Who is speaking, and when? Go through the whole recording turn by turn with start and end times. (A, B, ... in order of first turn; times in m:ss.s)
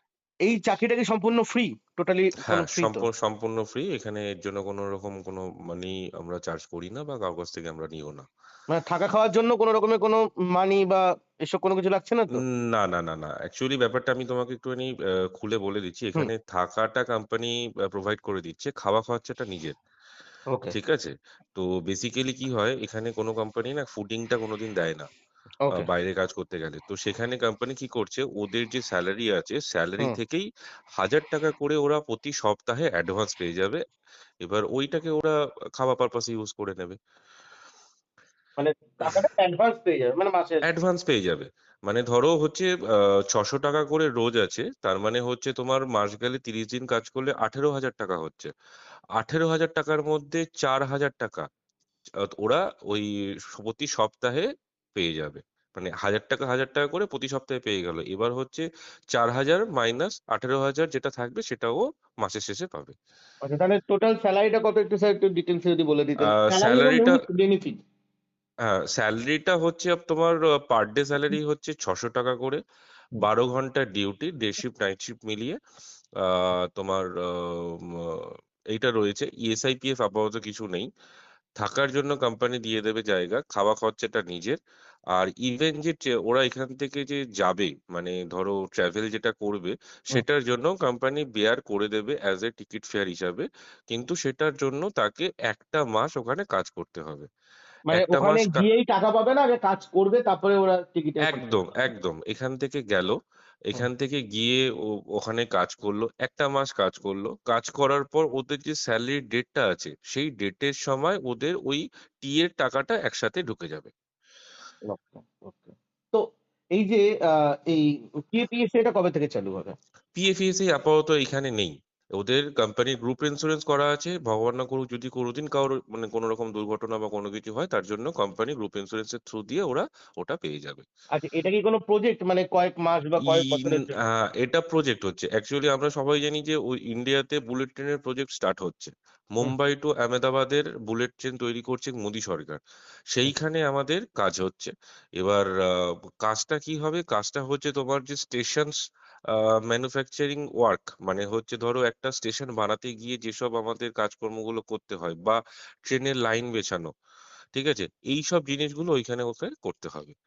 0:00.4-0:03.1 A
0:02.5-0:08.3 B
0:08.7-0:12.4 A
0:12.4-0:19.8 B
0:20.5-0:20.8 A
0:20.7-0:25.1 B
0:25.6-0:25.9 A
0:25.7-0:33.8 B
0:34.4-0:37.0 B
0:38.6-0:40.6 A
0:40.7-0:48.5 B
0:49.2-0:51.4 B
0:52.3-1:03.0 B
1:03.4-1:07.8 A
1:06.2-1:07.2 B
1:08.6-1:12.6 B
1:13.2-1:15.6 B
1:16.2-1:20.9 B
1:21.6-1:24.6 B
1:25.1-1:37.3 B
1:37.9-1:41.6 A
1:37.9-1:38.6 B
1:41.2-1:43.2 B
1:43.7-1:53.9 B
1:54.9-1:56.2 A
1:56.8-1:59.8 A
2:00.2-2:10.8 B
2:11.1-2:14.0 A
2:13.2-2:22.6 B
2:23.1-2:28.7 B
2:29.3-2:36.9 B
2:37.6-2:40.2 B